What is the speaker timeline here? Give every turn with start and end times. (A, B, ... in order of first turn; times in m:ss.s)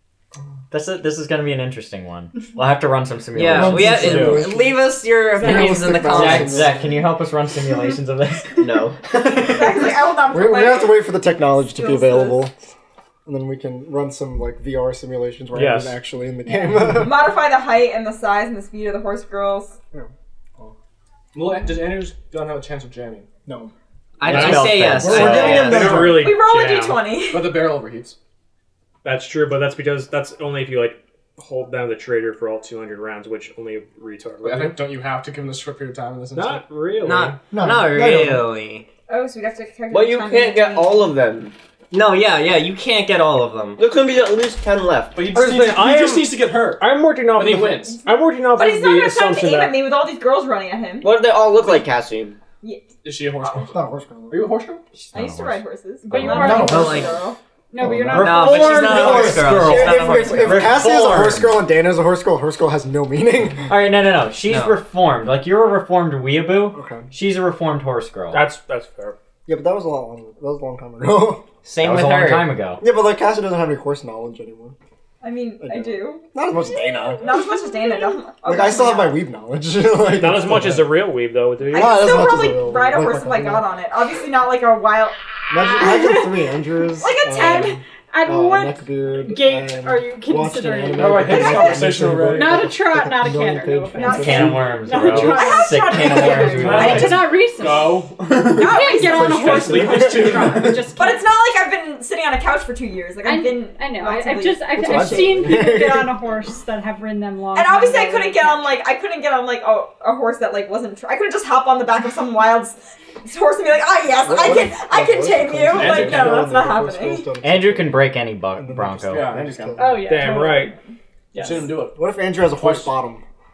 0:00.7-0:04.5 A
0:03.4-0:06.7 B
0:03.5-0:04.8 C
0:03.9-0:04.4 D
0:05.4-0:06.9 C
0:05.4-0:09.6 A
0:08.6-0:09.0 E
0:09.4-0:11.1 F
0:10.3-0:12.5 C
0:11.7-0:12.4 F
0:13.3-0:17.3 C
0:15.5-0:16.0 D
0:16.5-0:19.8 F
0:19.9-0:20.7 C
0:21.3-0:23.3 G
0:23.5-0:23.7 C
0:24.2-0:26.1 B
0:24.2-0:25.8 A
0:24.2-0:27.0 D
0:25.0-0:26.4 G
0:25.3-0:26.2 E
0:26.1-0:27.6 F
0:27.3-0:28.2 G
0:29.0-0:34.8 D
0:34.4-0:36.6 G
0:36.3-0:37.4 D
0:37.0-0:38.9 B
0:37.5-0:38.5 C
0:39.1-0:41.0 F
0:39.9-0:41.6 E
0:41.9-0:43.8 B
0:43.8-0:45.2 E
0:45.1-0:46.8 G
0:45.3-0:49.8 D
0:47.3-0:48.0 G
0:48.6-0:51.1 F
0:51.0-0:52.4 E
0:53.0-0:54.8 G
0:53.7-0:54.5 C
0:55.0-0:56.3 A
0:55.1-0:57.4 F
0:56.1-0:57.1 H
0:56.2-0:57.2 C
0:56.5-0:57.2 B
0:57.7-0:58.9 H
0:57.8-1:03.7 C
0:58.2-1:00.8 B
0:58.2-1:01.6 A
1:03.7-1:08.4 A
1:04.4-1:04.8 B
1:06.7-1:07.1 C
1:08.3-1:09.2 D
1:09.5-1:11.4 C
1:11.6-1:12.6 B
1:11.8-1:12.8 A
1:12.8-1:14.8 C
1:15.2-1:16.2 F
1:15.6-1:17.3 C
1:17.2-1:19.2 F
1:18.4-1:20.9 C
1:20.1-1:22.1 D
1:21.7-1:23.6 C
1:21.7-1:26.3 F
1:25.5-1:35.2 C
1:25.8-1:26.2 H
1:27.0-1:27.8 F
1:27.3-1:41.3 H
1:30.9-1:32.7 G
1:33.9-1:37.0 F
1:34.1-1:37.3 A
1:36.6-1:38.8 G
1:38.5-1:39.6 F
1:38.9-1:40.8 C
1:39.3-1:40.9 G
1:41.0-1:45.6 F
1:43.2-1:48.8 H
1:44.8-1:46.2 C
1:47.5-1:57.2 F
1:54.2-2:00.2 C
1:55.7-1:56.5 G
1:57.4-1:59.4 A
1:59.1-1:59.9 G
1:59.8-2:00.7 H
2:00.1-2:00.7 D
2:01.3-2:02.0 G
2:02.0-2:03.2 C
2:02.6-2:02.9 G